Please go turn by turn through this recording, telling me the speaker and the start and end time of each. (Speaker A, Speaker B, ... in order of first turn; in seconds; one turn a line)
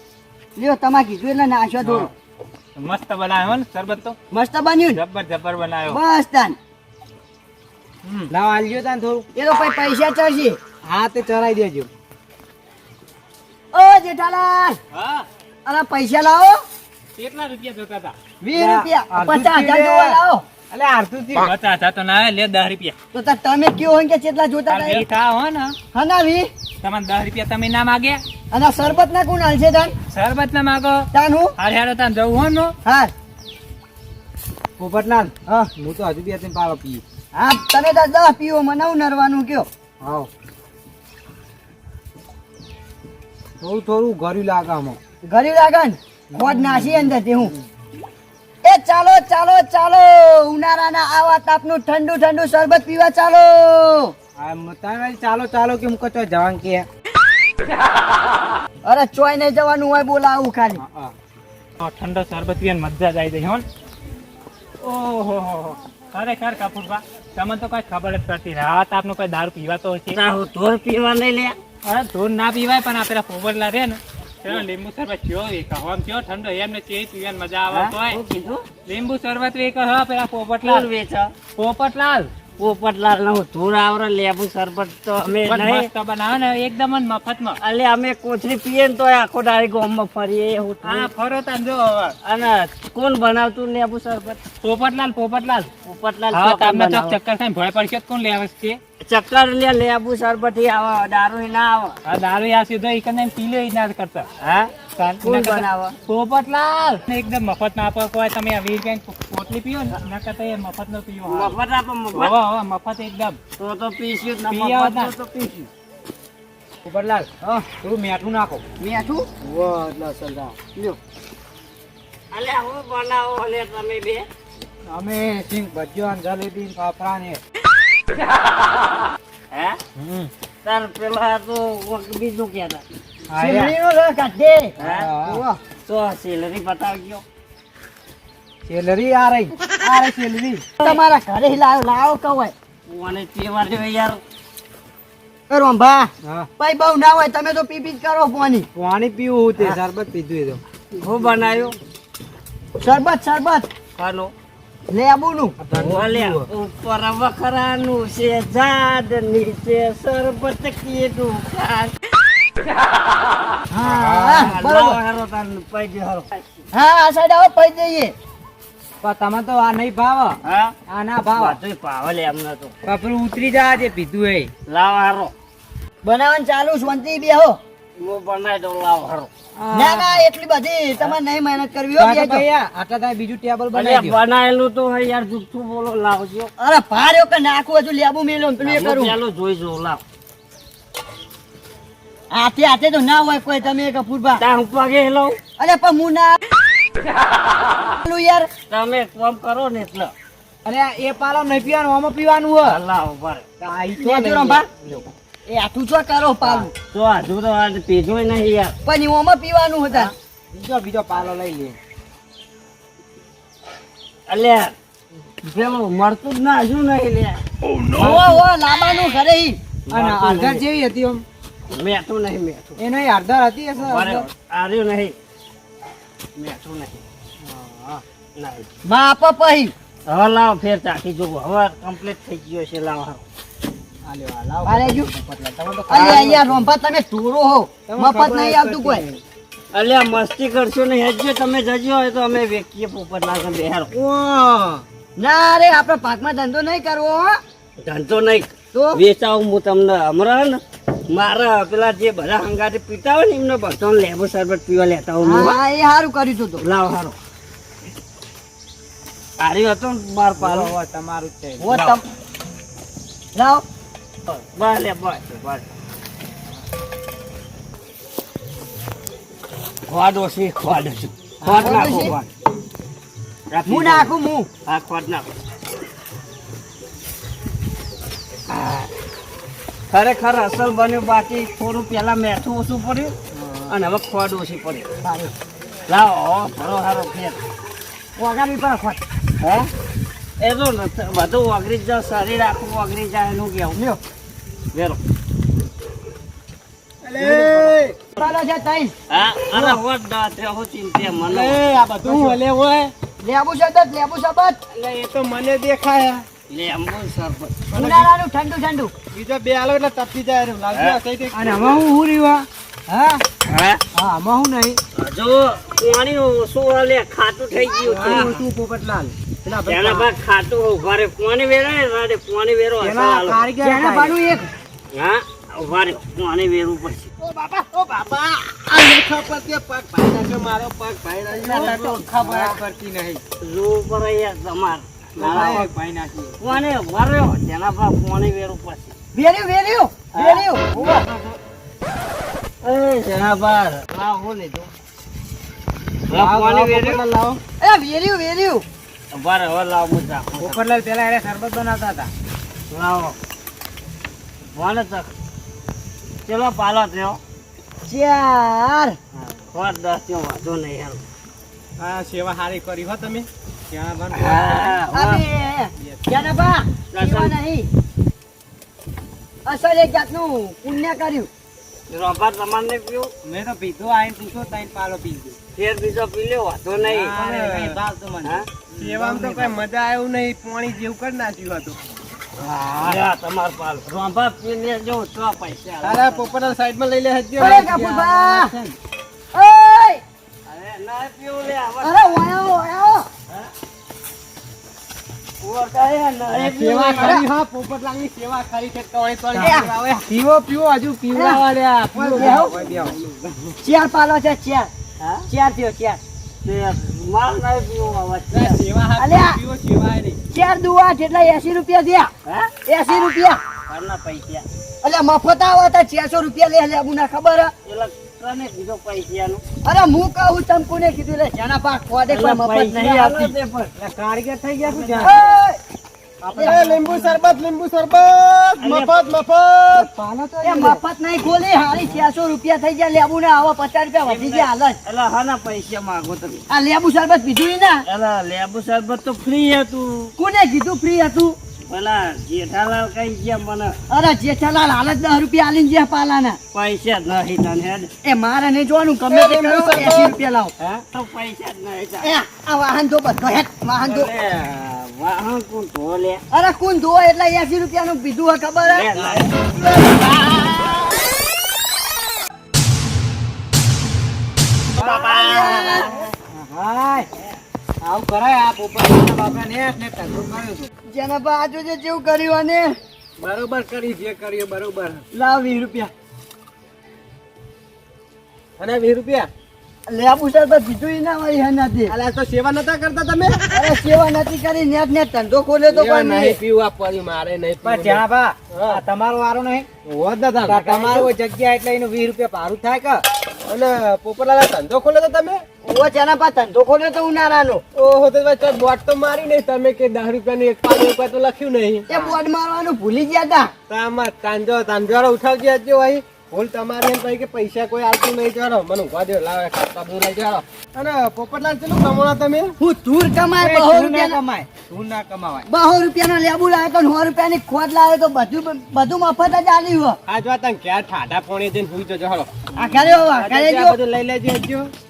Speaker A: 0.6-2.1
Speaker B: 1.8-2.1
Speaker B: 2.8-4.2
Speaker A: 4.3-5.0
Speaker B: 4.9-6.0
Speaker A: 5.9-6.6
Speaker C: 8.3-9.3
Speaker A: 9.3-10.6
Speaker C: 10.8-11.9
Speaker A: 13.7-14.8
Speaker B: 14.9-15.2
Speaker A: 15.7-16.6
Speaker B: 17.1-18.1
Speaker A: 18.4-20.4
Speaker C: 18.5-21.5
Speaker B: 21.4-22.9
Speaker A: 23.1-25.0
Speaker B: 24.7-25.8
Speaker A: 25.9-26.5
Speaker B: 26.8-28.2
Speaker A: 28.5-29.9
Speaker B: 30.1-32.7
Speaker A: 31.1-31.5
Speaker A: 32.9-33.1
Speaker C: 34.8-37.0
Speaker A: 37.3-39.7
Speaker C: 40.0-40.3
Speaker C: 43.6-45.0
Speaker A: 45.3-47.5
Speaker C: 46.3-47.2
Speaker A: 48.6-54.1
Speaker C: 54.4-56.9
Speaker A: 58.8-60.8
Speaker C: 60.8-61.1
Speaker B: 61.8-63.6
Speaker B: 64.8-70.2
Speaker D: 70.2-71.6
Speaker B: 71.8-78.2
Speaker D: 77.7-78.7
Speaker B: 78.8-80.9
Speaker D: 80.6-81.3
Speaker B: 81.5-82.3
Speaker D: 82.6-85.9
Speaker B: 85.3-87.6
Speaker D: 87.6-91.1
Speaker B: 90.8-92.2
Speaker D: 92.2-94.4
Speaker B: 94.6-95.7
Speaker D: 95.8-97.2
Speaker B: 96.3-98.8
Speaker D: 99.0-102.0
Speaker B: 102.0-104.3
Speaker D: 104.4-106.0
Speaker B: 104.8-113.4
Speaker D: 111.3-112.3
Speaker D: 113.6-115.7
Speaker B: 114.4-115.1
Speaker C: 116.8-118.6
Speaker A: 118.8-119.3
Speaker E: 119.4-120.6
Speaker D: 122.3-124.3
Speaker C: 124.9-127.4
Speaker D: 129.5-129.8
Speaker C: 130.0-130.3
Speaker D: 130.6-132.8
Speaker C: 133.3-133.7
Speaker A: 133.4-135.6
Speaker D: 134.8-135.1
Speaker C: 134.8-135.4
Speaker D: 135.8-137.2
Speaker C: 138.6-140.7
Speaker A: 140.8-142.5
Speaker D: 142.9-144.2
Speaker A: 145.5-148.7
Speaker C: 146.2-146.5
Speaker C: 148.7-150.6
Speaker D: 150.9-151.8
Speaker A: 152.8-153.7
Speaker D: 154.0-154.3
Speaker A: 154.9-155.6
Speaker C: 155.6-156.5
Speaker D: 155.8-161.9
Speaker A: 163.7-165.0
Speaker C: 163.8-164.5
Speaker D: 164.4-166.6
Speaker A: 166.7-168.1
Speaker C: 169.0-171.6
Speaker D: 170.4-170.7
Speaker D: 171.4-172.7
Speaker C: 172.8-174.5
Speaker D: 174.7-175.3
Speaker A: 176.0-177.6
Speaker D: 178.0-179.3
Speaker C: 179.6-180.2
Speaker A: 179.7-182.4
Speaker C: 182.0-184.2
Speaker D: 183.8-186.5
Speaker A: 186.6-189.2
Speaker D: 188.6-190.0
Speaker A: 192.3-194.4
Speaker D: 194.4-195.4
Speaker A: 195.6-196.4
Speaker A: 198.0-198.5
Speaker D: 198.7-200.1
Speaker C: 200.6-202.8
Speaker D: 202.7-203.4
Speaker C: 203.6-205.1
Speaker A: 204.0-204.7
Speaker A: 205.5-206.7
Speaker D: 206.4-208.7
Speaker A: 208.8-210.1
Speaker C: 210.5-211.8
Speaker D: 214.3-214.8
Speaker D: 215.4-217.4
Speaker E: 217.6-218.2
Speaker C: 217.9-218.4
Speaker A: 217.9-219.6
Speaker C: 219.9-221.2
Speaker D: 219.9-220.6
Speaker D: 221.7-222.8
Speaker C: 222.8-224.3
Speaker D: 223.8-225.2
Speaker D: 226.3-227.0
Speaker C: 227.4-228.0
Speaker D: 228.3-228.7
Speaker A: 228.8-229.7
Speaker D: 230.1-233.2
Speaker C: 234.0-236.7
Speaker A: 234.6-235.1
Speaker A: 235.9-239.0
Speaker C: 237.9-239.2
Speaker D: 239.7-243.9
Speaker C: 243.9-244.8
Speaker A: 245.2-247.4
Speaker D: 247.8-255.6
Speaker A: 248.7-249.0
Speaker A: 255.2-256.6
Speaker D: 256.6-257.2
Speaker D: 259.4-260.7
Speaker C: 260.4-262.0
Speaker A: 261.6-262.0
Speaker A: 263.3-263.6
Speaker D: 264.3-265.6
Speaker D: 269.9-272.3
Speaker C: 271.4-271.8
Speaker A: 271.6-272.1
Speaker D: 273.5-274.1
Speaker A: 273.6-274.5
Speaker D: 274.6-275.3
Speaker D: 278.5-278.9
Speaker D: 279.9-283.1
Speaker C: 283.4-283.7
Speaker D: 283.7-284.9
Speaker A: 285.0-285.3
Speaker D: 285.9-287.4
Speaker A: 288.2-289.0
Speaker D: 289.4-289.7
Speaker D: 290.4-293.8
Speaker A: 293.7-294.0
Speaker D: 294.7-295.0
Speaker E: 297.0-297.9
Speaker C: 297.2-297.8
Speaker A: 298.1-298.9
Speaker D: 299.1-301.6
Speaker E: 299.4-299.8
Speaker E: 301.1-302.9
Speaker C: 302.0-302.4
Speaker A: 303.2-304.6
Speaker E: 304.7-306.2
Speaker D: 306.5-307.6
Speaker A: 307.7-308.9
Speaker E: 309.1-311.5
Speaker C: 311.3-313.2
Speaker D: 313.4-313.8
Speaker C: 313.9-314.8
Speaker D: 314.9-318.4
Speaker C: 317.8-320.1
Speaker D: 319.7-323.4
Speaker C: 322.8-324.1
Speaker A: 323.6-324.5
Speaker D: 324.9-327.1
Speaker E: 327.2-332.5
Speaker C: 331.3-333.2
Speaker D: 333.4-335.6
Speaker C: 335.2-336.4
Speaker E: 335.2-335.7
Speaker D: 336.4-338.9
Speaker A: 339.1-341.0
Speaker C: 340.7-341.3
Speaker D: 342.6-344.7
Speaker C: 346.1-347.4
Speaker D: 346.1-346.9
Speaker A: 347.6-348.6
Speaker D: 349.1-350.6
Speaker C: 350.4-352.1
Speaker D: 352.7-353.2
Speaker D: 354.5-355.1
Speaker D: 356.2-357.2
Speaker A: 357.9-359.0
Speaker D: 359.5-361.0
Speaker E: 361.8-363.3
Speaker C: 361.9-362.1
Speaker C: 363.7-364.8
Speaker D: 364.2-365.2
Speaker A: 364.9-367.7
Speaker D: 366.9-367.3
Speaker A: 369.4-371.3
Speaker D: 371.9-373.1
Speaker C: 373.2-375.4
Speaker D: 375.5-377.0
Speaker C: 376.8-379.6
Speaker E: 376.9-377.8
Speaker E: 378.8-381.8
Speaker D: 382.6-386.5
Speaker C: 382.7-383.1
Speaker E: 385.8-388.7
Speaker A: 387.4-388.5
Speaker C: 387.4-387.8
Speaker A: 389.3-390.0
Speaker D: 390.5-391.9
Speaker A: 391.8-393.1
Speaker D: 395.4-397.1
Speaker E: 396.3-400.1
Speaker A: 397.0-397.2
Speaker C: 399.3-403.0
Speaker A: 399.3-399.7
Speaker A: 401.1-401.4
Speaker E: 401.6-403.3
Speaker A: 402.1-402.5
Speaker A: 403.6-404.7
Speaker D: 405.0-405.3
Speaker A: 405.3-406.0
Speaker D: 406.4-408.6
Speaker E: 408.3-410.2
Speaker A: 409.0-409.4
Speaker A: 410.3-412.1
Speaker D: 412.2-412.5
Speaker A: 412.6-413.4
Speaker D: 413.7-414.4
Speaker A: 414.8-417.5
Speaker D: 417.6-419.4
Speaker A: 419.6-423.3
Speaker D: 422.1-423.7
Speaker C: 423.8-425.2
Speaker A: 425.0-425.6
Speaker C: 426.2-427.4
Speaker A: 426.3-426.6
Speaker E: 426.4-429.9
Speaker D: 428.6-428.9
Speaker C: 429.7-430.8
Speaker A: 430.4-434.8
Speaker D: 434.0-436.4
Speaker A: 436.5-437.9
Speaker D: 437.9-440.1
Speaker A: 440.2-441.4
Speaker D: 441.7-443.8
Speaker A: 443.9-446.4
Speaker D: 446.5-447.9
Speaker A: 448.0-450.5
Speaker E: 449.1-450.1
Speaker D: 450.6-452.1
Speaker A: 452.0-454.1
Speaker D: 453.8-456.2
Speaker A: 456.3-458.9
Speaker D: 458.7-459.4
Speaker A: 459.4-460.1
Speaker A: 464.8-466.1
Speaker D: 464.9-465.9
Speaker C: 466.3-467.1
Speaker C: 467.8-470.7
Speaker A: 470.9-472.8
Speaker E: 473.2-475.0
Speaker A: 475.1-475.9
Speaker E: 478.6-479.3
Speaker A: 479.9-481.9
Speaker E: 481.9-483.4
Speaker A: 483.5-486.4
Speaker E: 485.7-488.8
Speaker C: 487.6-493.0
Speaker E: 490.0-491.1
Speaker E: 493.5-495.4
Speaker A: 495.6-497.6
Speaker E: 497.7-502.1
Speaker A: 501.9-503.5
Speaker E: 503.7-512.5
Speaker A: 512.6-514.2
Speaker C: 513.4-515.5
Speaker A: 515.5-520.0
Speaker E: 520.1-522.3
Speaker A: 522.5-523.8
Speaker E: 523.2-524.7